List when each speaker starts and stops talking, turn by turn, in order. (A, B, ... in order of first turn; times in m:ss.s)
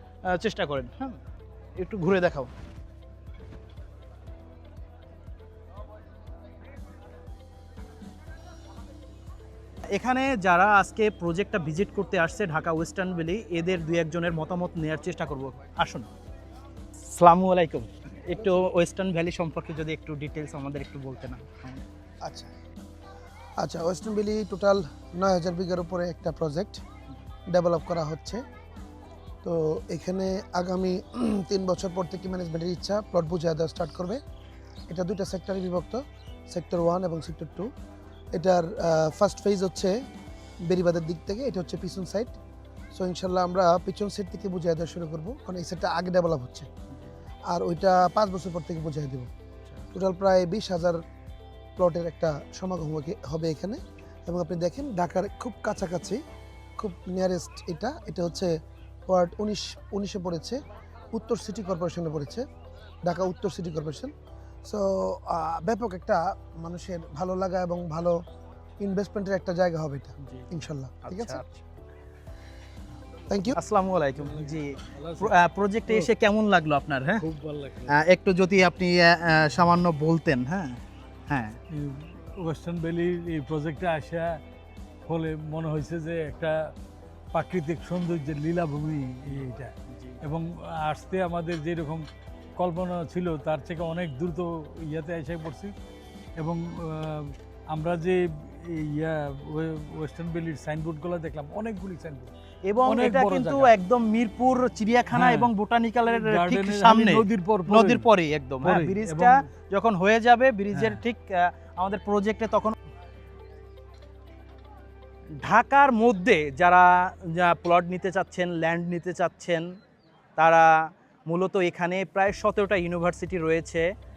0:00.2-0:01.2 A
0:01.7-0:02.5 A
0:09.9-0:16.1 A
0:17.0-0:21.8 A
0:22.2-0:22.5 B
0:23.6-0:26.8 B
0:27.5-0:28.4 B
0:29.4-0:34.2 B
0:34.9-0:37.7 B
0:38.3-0:40.0 B
0:40.6-0:42.3 B
0:42.9-0:46.7 B
0:47.5-0:49.3 B
0:49.9-0:51.0 B
0:51.8-0:56.2 B
0:56.8-0:58.5 B
0:59.1-1:00.6 B
1:01.1-1:02.4 B
1:03.0-1:04.1 B
1:04.6-1:08.2 B
1:08.8-1:11.4 B
1:11.0-1:11.6 A
1:13.3-1:13.6 B
1:13.5-1:17.2 A
1:14.2-1:15.4 C
1:17.2-1:18.0 C
1:17.9-1:21.6 A
1:21.7-1:24.4 C
1:25.1-1:26.7 C
1:27.3-1:32.0 C
1:29.3-1:30.2 A
1:32.6-1:35.7 C
1:36.4-1:42.3 C
1:42.6-1:52.7 A
1:42.8-1:43.7 C
1:45.1-1:45.5 C
1:46.1-1:48.0 C
1:48.6-1:49.4 C
1:50.7-1:51.0 C
1:55.4-1:59.7 A
2:00.4-2:03.9 A